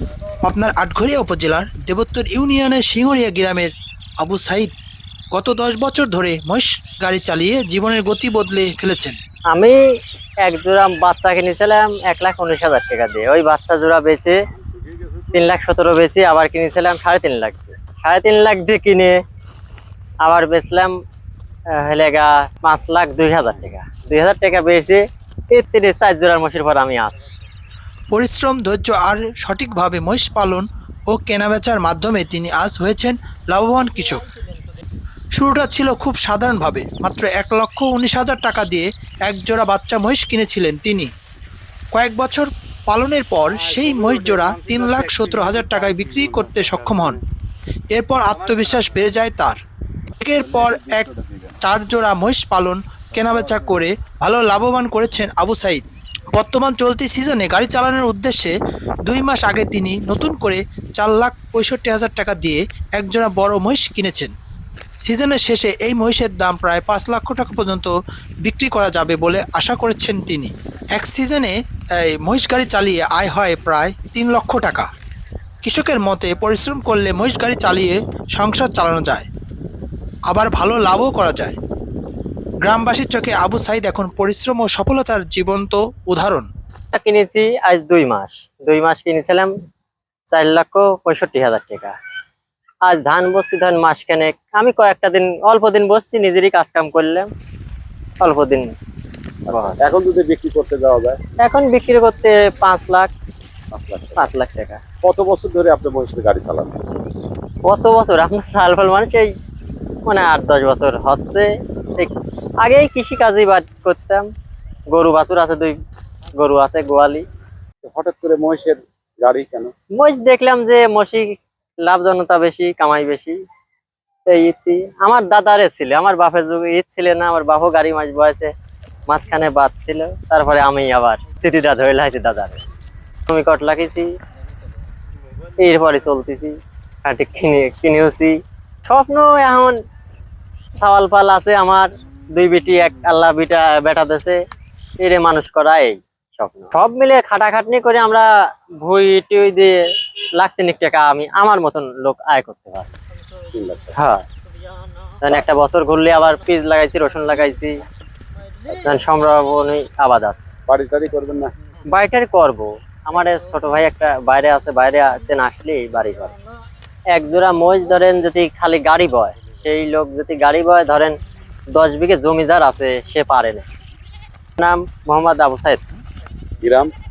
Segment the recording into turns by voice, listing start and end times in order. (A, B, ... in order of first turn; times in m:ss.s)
0:00.4-0:04.7 A
0:05.3-0:09.2 A
0:09.5-0:09.8 B
0:10.4-0:14.4 B
0:15.3-0:19.2 B
0:20.2-0:21.0 B
0:21.8-0:27.2 B
0:23.4-0:23.7 C
0:28.1-0:34.2 A
0:35.3-0:41.1 A
0:41.9-0:47.2 A
0:43.5-0:47.2 C
0:47.9-0:49.6 A
0:50.2-0:51.1 A
0:50.6-0:51.4 C
0:51.6-0:58.5 A
0:59.1-1:04.3 A
1:05.0-1:07.9 A
1:08.4-1:14.9 A
1:15.6-1:19.3 A
1:20.3-1:21.6 A
1:22.6-1:26.5 A
1:26.9-1:29.5 B
1:30.3-1:31.9 B
1:32.8-1:37.3 B
1:38.2-1:38.7 B
1:39.5-1:41.2 C
1:39.5-1:39.9 B
1:41.4-1:43.1 B
1:43.7-1:44.2 C
1:44.2-1:44.8 B
1:45.0-1:46.8 C
1:47.7-1:49.3 B
1:50.1-1:54.3 B
1:54.9-1:55.8 B
1:56.4-1:57.2 B
1:57.8-1:59.7 C
2:00.0-2:03.4 B
2:04.3-2:08.5 B
2:09.1-2:12.6 B
2:13.3-2:14.1 B
2:15.6-2:18.3 B
2:18.8-2:19.8 B
2:20.8-2:24.4 B
2:25.0-2:28.3 B
2:28.8-2:29.8 B
2:30.4-2:32.9 B
2:33.5-2:34.0 C
2:34.0-2:34.3 B
2:35.2-2:37.8 B
2:38.7-2:40.5 B
2:40.7-2:41.5 C
2:41.9-2:46.3 B
2:47.1-2:51.2 B
2:51.7-2:53.6 B
2:54.6-2:55.8 B
2:56.6-2:56.9 C